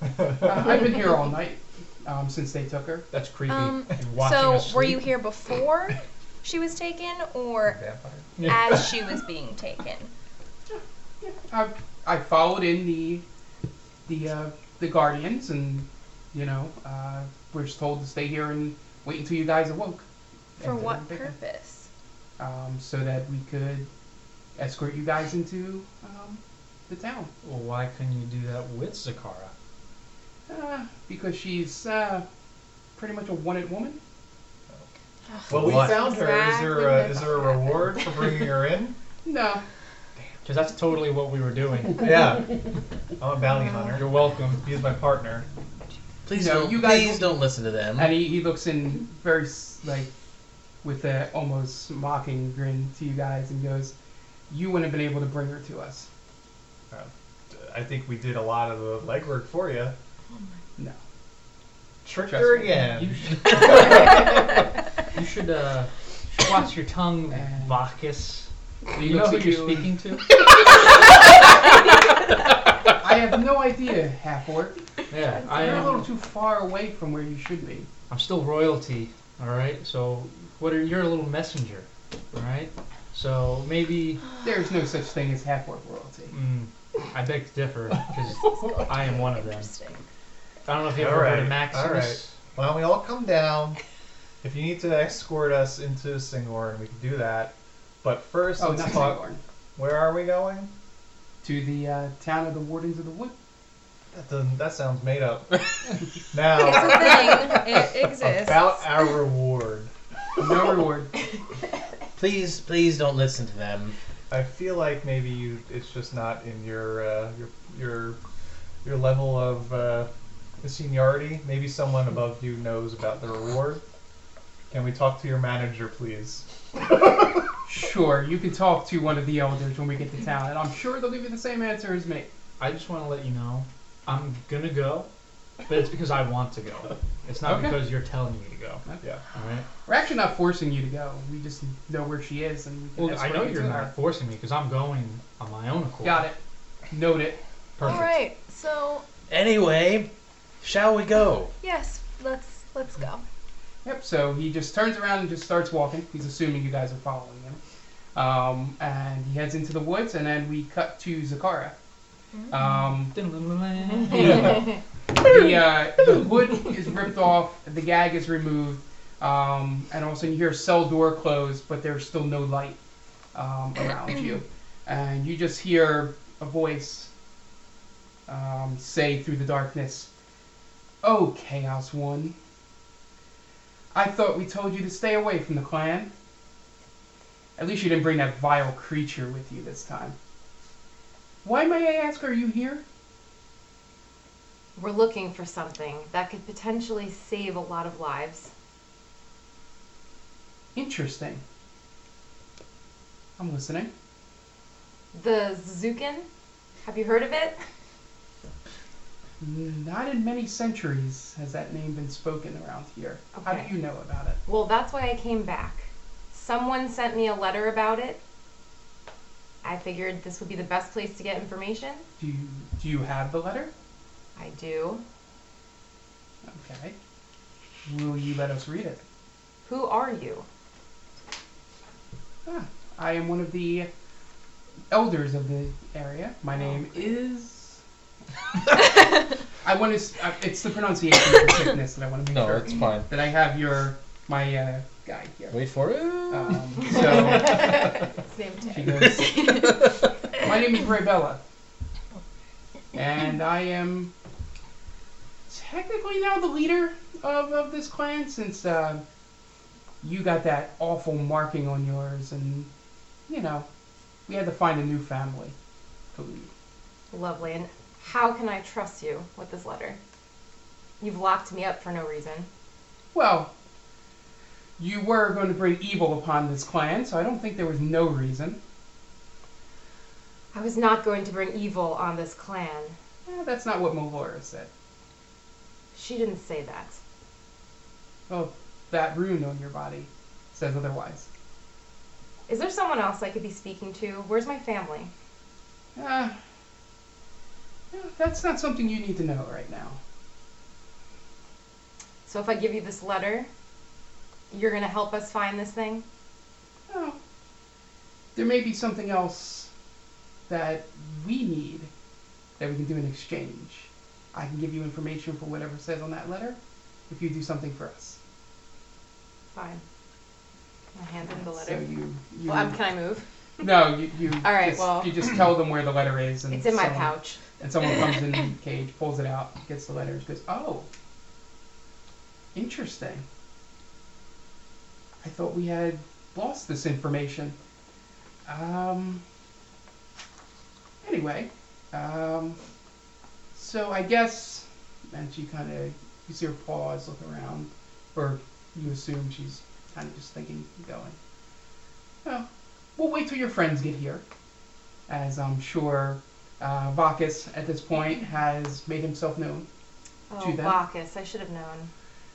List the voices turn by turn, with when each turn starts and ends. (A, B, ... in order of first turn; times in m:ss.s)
0:00.1-0:00.7 A
0:00.4-0:03.0 B
0:03.1-0:05.1 C
0:03.5-0:07.8 D
0:07.7-0:08.4 A
0:08.4-0:08.8 C
0:08.4-0:10.1 D
0:10.7-0:13.2 B
0:14.0-0:20.0 B
0:20.6-0:21.3 B
0:20.6-0:21.9 D
0:22.4-0:23.9 B
0:24.6-0:27.3 B
0:27.4-0:29.5 C
0:30.5-0:32.2 B
0:33.0-0:34.0 B
0:35.3-0:38.0 D
0:35.5-0:39.0 A
0:35.5-0:35.9 E
0:39.2-0:39.6 B
0:40.4-0:42.2 C
0:42.0-0:42.7 A
0:43.2-0:45.4 A
0:43.9-0:44.6 C
0:46.2-0:48.2 E
0:46.3-0:47.4 B
0:48.0-0:50.1 B
0:50.8-0:53.9 B
0:54.5-0:56.1 B
0:56.9-0:59.9 A
1:02.0-1:03.8 A
1:02.2-1:02.8 B
1:02.9-1:04.2 C
1:05.1-1:10.3 C
1:07.3-1:07.8 B
1:08.9-1:09.9 B
1:13.0-1:14.8 B
1:15.1-1:16.1 C
1:15.5-1:17.9 B
1:18.1-1:24.2 C
1:24.4-1:26.3 B
1:26.3-1:29.7 C
1:28.6-1:30.0 D
1:30.7-1:32.3 C
1:30.9-1:33.8 A
1:34.4-1:39.2 A
1:38.6-1:39.4 B
1:39.8-1:40.7 A
1:41.4-1:43.3 B
1:44.1-1:45.7 A
1:46.3-1:49.9 A
1:46.5-1:48.8 D
1:50.4-1:51.1 B
1:52.2-1:54.0 E
1:54.3-1:58.2 A
1:58.8-2:00.1 A
2:00.6-2:03.8 A
2:04.7-2:07.5 A
2:07.7-2:12.3 B
2:12.6-2:15.1 C
2:15.7-2:18.8 C
2:17.4-2:17.8 B
2:19.3-2:19.6 C
2:19.8-2:23.9 B
2:23.0-2:26.2 C
2:26.0-2:26.4 B
2:26.9-2:27.4 B
2:27.8-2:28.1 C
2:27.8-2:29.0 D
2:29.3-2:30.1 E
2:30.6-2:31.5 E
2:31.6-2:33.2 D
2:33.8-2:37.6 B
2:38.1-2:41.7 B
2:42.3-2:42.7 D
2:42.5-2:43.1 B
2:43.1-2:44.6 C
2:44.1-2:52.8 B
2:53.3-2:57.1 B
2:58.3-3:00.1 B
3:01.0-3:02.3 B
3:03.9-3:06.1 B
3:07.6-3:10.1 B
3:11.4-3:12.8 B
3:14.8-3:18.5 F
3:20.7-3:21.4 B
3:23.4-3:23.9 B
3:25.1-3:26.3 F
3:26.8-3:27.6 F
3:29.4-3:34.4 B
3:33.3-3:33.7 F
3:34.4-3:38.2 F
3:39.6-3:42.0 F
3:42.2-3:43.7 B
3:44.4-3:45.0 F
3:46.5-3:47.0 B
3:47.9-3:49.0 B
3:49.6-3:50.4 F
3:52.4-3:53.9 B
3:54.9-3:57.8 B
3:59.6-4:05.6 B
4:02.3-4:03.1 E
4:05.5-4:07.0 E
4:06.3-4:08.0 B
4:07.1-4:09.1 F
4:08.7-4:09.8 B
4:09.0-4:09.8 E
4:10.3-4:11.4 B
4:12.9-4:14.1 B
4:15.5-4:19.0 B
4:20.0-4:22.7 B
4:23.3-4:23.6 B
4:24.3-4:25.5 B
4:26.1-4:26.5 B
4:27.1-4:30.0 F
4:31.0-4:32.5 F
4:33.1-4:33.5 B
4:34.8-4:38.6 B
4:40.5-4:43.0 F
4:43.2-4:44.7 B
4:45.9-4:47.0 F
4:48.3-4:51.3 B
4:52.5-4:55.1 F
4:56.0-4:56.3 B
4:57.9-5:00.0 B
5:02.2-5:03.5 F
5:04.5-5:06.0 F
5:06.9-5:07.2 B
5:08.3-5:09.7 B
5:10.5-5:11.9 B
5:12.6-5:16.6 B
5:17.1-5:18.2 B
5:19.5-5:19.8 F
5:20.9-5:21.9 F
5:21.3-5:22.8 B
5:22.4-5:23.6 F
5:23.6-5:30.9 B
5:24.4-5:25.1 F
5:26.5-5:27.4 F
5:32.5-5:33.2 B
5:35.2-5:37.6 B
5:38.4-5:39.2 B
5:41.0-5:42.6 B
5:43.5-5:51.2 B
5:52.2-5:54.2 B
5:55.1-5:59.6 B
6:00.3-6:01.9 F
6:00.4-6:00.8 B